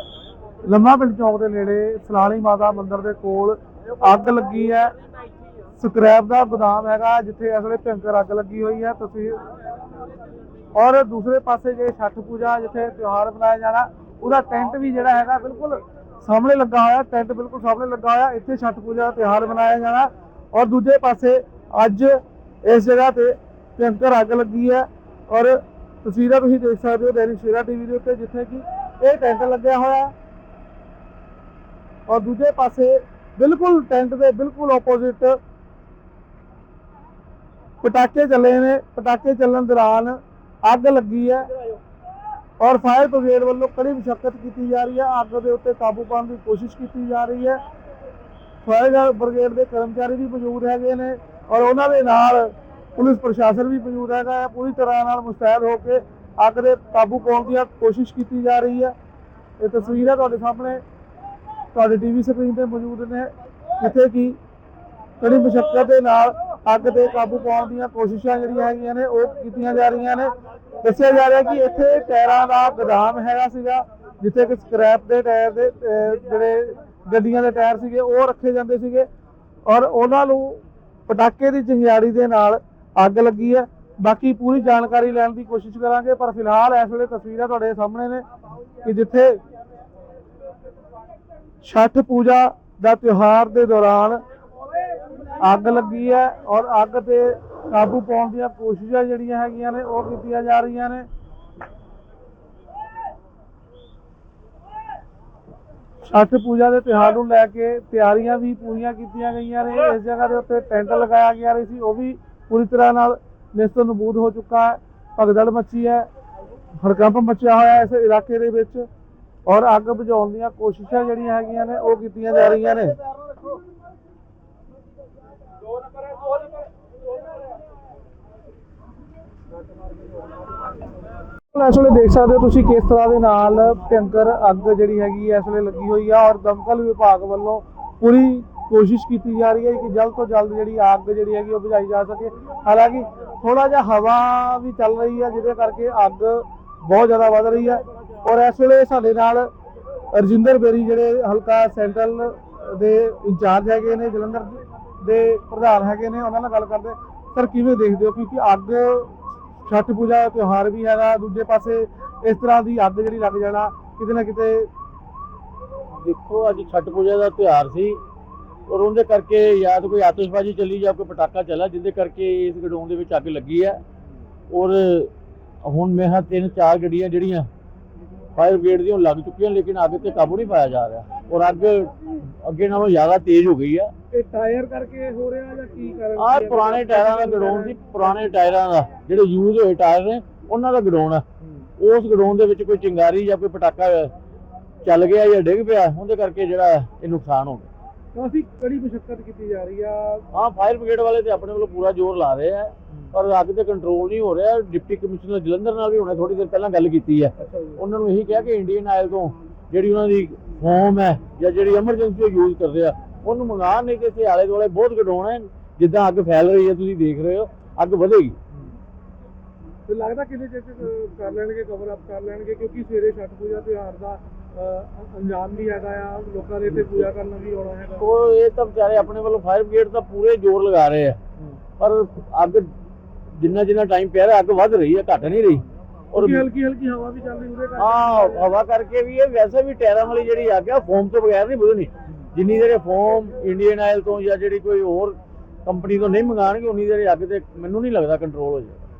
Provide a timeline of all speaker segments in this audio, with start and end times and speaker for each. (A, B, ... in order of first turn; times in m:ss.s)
0:00.6-0:04.9 A
0:05.8-0:09.4 A
0:10.7-0:30.1 A
0:32.1-0:35.4 A
0:37.8-0:41.5 A
0:42.6-0:47.6 A
0:48.6-0:58.9 A
0:59.6-1:00.8 A
1:01.7-1:04.4 A
1:05.2-1:10.3 A
1:10.8-1:19.1 A
1:19.6-1:28.2 A
1:28.8-1:29.4 A
1:31.6-1:34.2 A
1:35.4-1:41.1 A
1:46.0-1:56.1 A
1:56.8-1:58.8 A
1:59.5-2:02.9 A
2:11.5-2:29.5 A
2:30.1-2:44.7 A
2:46.0-2:48.0 B
2:48.7-2:53.8 B
2:54.5-2:55.1 B
2:55.6-2:57.5 B
2:58.4-3:03.9 B
3:04.1-3:08.2 A
3:06.2-3:11.2 B
3:11.8-3:14.1 B
3:14.8-3:17.7 B
3:18.1-3:20.2 A
3:20.3-3:38.4 B
3:27.4-3:27.8 A
3:39.9-3:48.0 A
3:48.0-3:51.2 B
3:51.8-3:52.7 B
3:53.3-3:56.4 B
3:56.1-3:58.4 A
3:57.8-4:08.8 B